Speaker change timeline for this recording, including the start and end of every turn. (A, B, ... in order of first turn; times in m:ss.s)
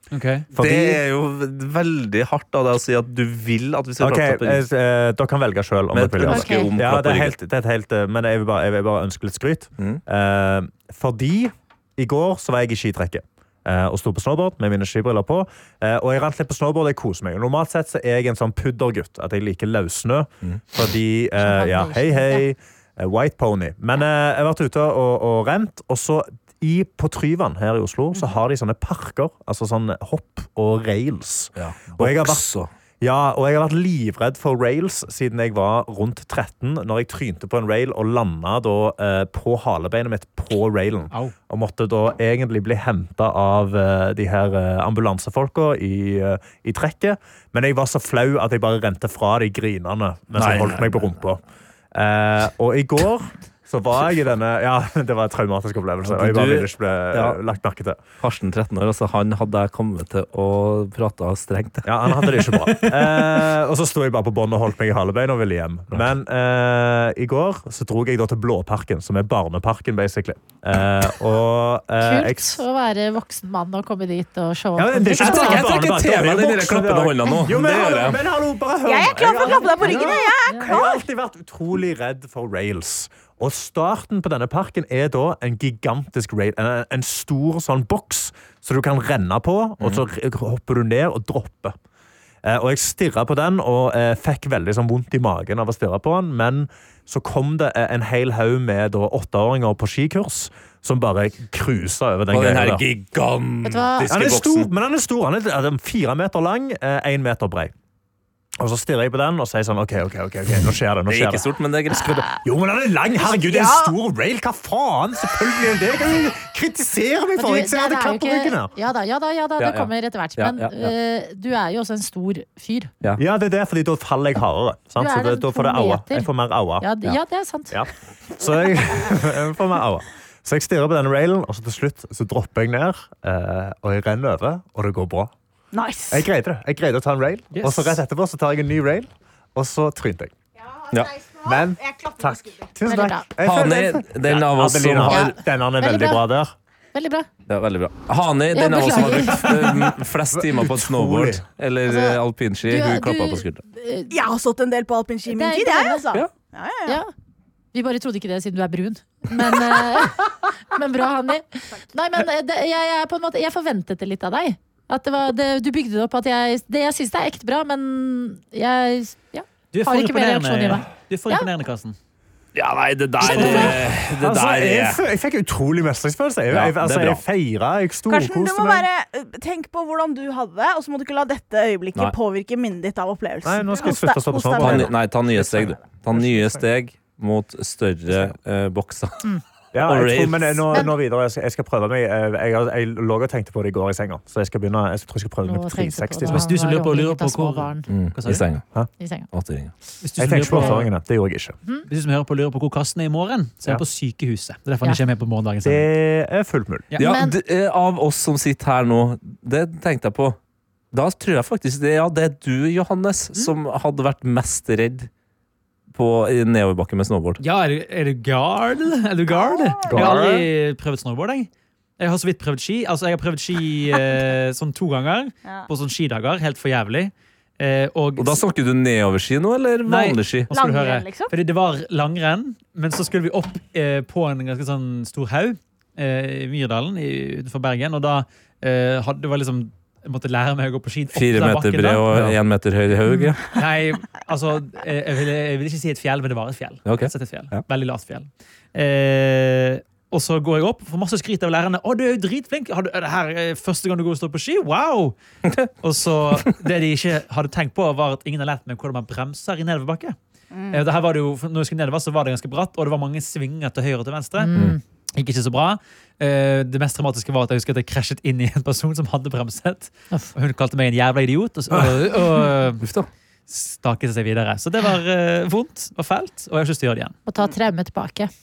0:00.1-0:00.5 A
0:00.5-0:01.0 B
0:00.6-0:04.6 C
0:04.0-0:32.4 B
0:05.9-0:07.4 C
0:06.3-0:06.7 D
0:21.4-0:22.4 D
0:31.6-0:32.7 C
0:33.0-0:51.4 B
0:50.4-0:51.2 C
0:51.9-0:58.0 B
0:56.1-0:57.4 C
0:58.2-1:02.3 C
1:01.8-1:12.6 B
1:02.6-1:03.4 A
1:12.0-1:15.6 D
1:14.8-1:31.8 B
1:15.2-1:18.2 C
1:18.8-1:21.0 E
1:19.4-1:20.7 D
1:32.4-1:42.8 B
1:42.3-1:44.7 C
1:43.6-1:44.1 D
1:44.1-1:47.7 B
1:48.6-1:58.7 B
1:51.1-1:52.3 C
1:53.2-1:53.9 E
1:57.4-2:02.9 D
1:59.6-2:00.9 C
2:03.2-2:06.9 B
2:05.0-2:06.3 D
2:06.8-2:07.8 D
2:07.7-2:15.3 B
2:15.7-2:16.3 E
2:16.1-2:20.3 B
2:17.5-2:18.0 A
2:20.7-2:22.7 E
2:21.4-2:26.5 B
2:22.8-2:23.3 D
2:23.4-2:25.3 C
2:25.1-2:26.2 D
2:26.9-2:27.3 D
2:27.5-2:33.6 C
2:28.5-2:29.6 D
2:30.3-2:31.4 B
2:31.9-2:34.1 D
2:34.1-2:37.0 E
2:35.3-2:36.0 D
2:37.7-2:51.5 D
2:49.7-2:52.0 A
2:52.6-2:55.0 C
2:53.2-2:53.8 A
2:53.3-2:58.9 B
2:56.5-2:57.2 C
2:58.1-3:04.9 E
3:03.4-3:06.6 B
3:04.6-3:09.2 C
3:08.1-3:08.4 B
3:09.7-3:16.4 B
3:09.9-3:10.8 C
3:15.4-3:17.9 D
3:16.3-3:18.4 A
3:17.9-3:18.7 C
3:18.3-3:18.9 B
3:19.0-3:19.3 D
3:19.3-3:19.7 C
3:20.0-3:20.9 A
3:20.2-3:21.6 B
3:21.9-3:25.9 A
3:25.6-3:26.9 B
3:27.0-3:30.4 C
3:27.0-3:27.4 D
3:30.9-3:35.1 C
3:35.9-3:37.4 C
3:37.4-3:48.4 A
3:39.3-3:40.2 E
3:39.9-3:40.5 B
3:48.2-3:50.5 C
3:49.8-4:02.4 A
3:50.5-3:51.3 E
4:01.1-4:03.6 C
4:03.5-4:15.2 A
4:06.8-4:07.6 C
4:15.4-4:15.7 C
4:15.8-4:20.2 A
4:20.5-4:20.8 E
4:20.7-4:24.5 A
4:24.4-4:24.8 D
4:25.2-4:32.8 A
4:32.8-4:33.1 C
4:33.5-4:37.2 A
4:37.3-4:38.3 D